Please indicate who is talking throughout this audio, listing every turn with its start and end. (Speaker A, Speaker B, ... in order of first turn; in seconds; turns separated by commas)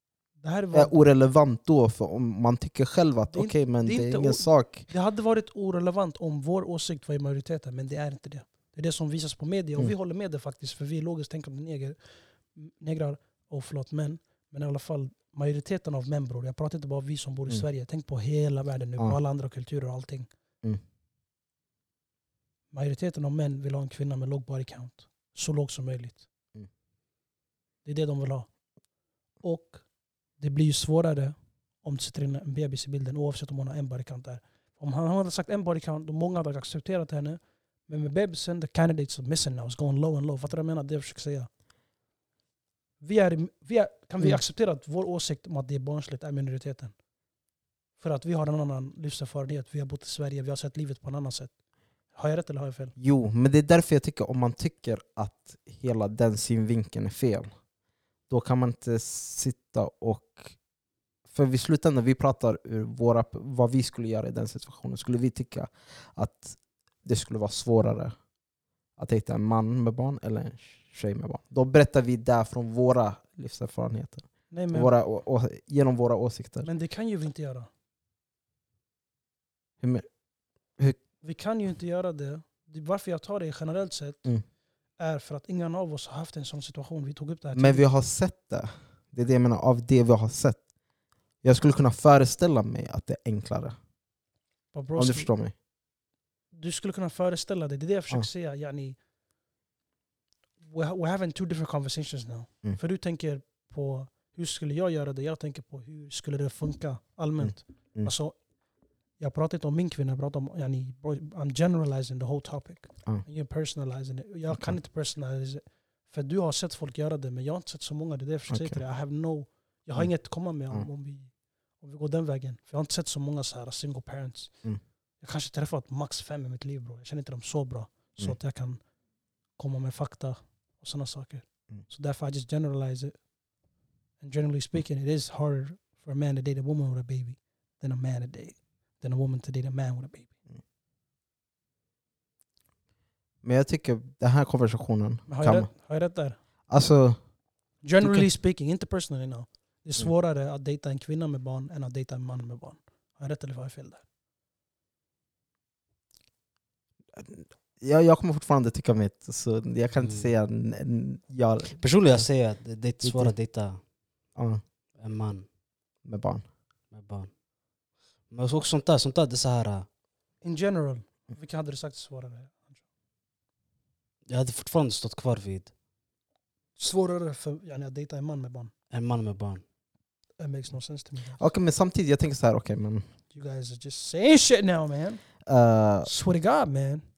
Speaker A: 0.4-1.0, Speaker B: 0.7-4.9, Speaker A: 3.3-12.0, Speaker A: 12.5-20.3, Speaker A: 22.7-26.3, Speaker A: 27.8-28.5, Speaker A: 29.4-29.8, Speaker A: 30.4-41.5, Speaker A: 43.0-46.9, Speaker A: 48.0-51.5, Speaker A: 52.1-52.9, Speaker B: 53.0-57.5, Speaker B: 58.3-60.5, Speaker B: 61.3-68.1, Speaker B: 69.0-76.7, Speaker A: 74.5-74.9, Speaker A: 76.6-77.7, Speaker B: 79.8-80.1, Speaker A: 81.2-84.2, Speaker A: 85.0-87.8, Speaker B: 87.5-90.6, Speaker B: 91.4-93.8, Speaker A: 94.7-95.3, Speaker B: 95.0-95.5, Speaker A: 96.5-99.0, Speaker A: 100.6-108.4, Speaker B: 107.4-108.1, Speaker A: 109.2-124.5, Speaker B: 114.5-114.8, Speaker B: 118.5-118.8, Speaker A: 125.2-128.8, Speaker A: 129.6-133.2, Speaker A: 134.2-140.3, Speaker B: 143.4-145.7, Speaker A: 145.3-146.4, Speaker B: 146.7-147.2, Speaker A: 147.8-154.0, Speaker B: 148.0-148.3, Speaker B: 157.2-161.8, Speaker C: 160.0-160.3, Speaker C: 161.8-163.8, Speaker B: 163.0-163.3, Speaker B: 164.3-164.6, Speaker C: 165.0-165.4, Speaker B: 166.0-166.4, Speaker C: 166.9-167.3, Speaker C: 168.3-169.9, Speaker A: 170.4-172.8, Speaker C: 174.3-175.7, Speaker A: 176.8-178.7, Speaker C: 178.9-179.6, Speaker A: 180.4-181.4, Speaker B: 181.4-183.0, Speaker A: 183.3-185.2, Speaker B: 185.4-186.1, Speaker A: 186.0-187.0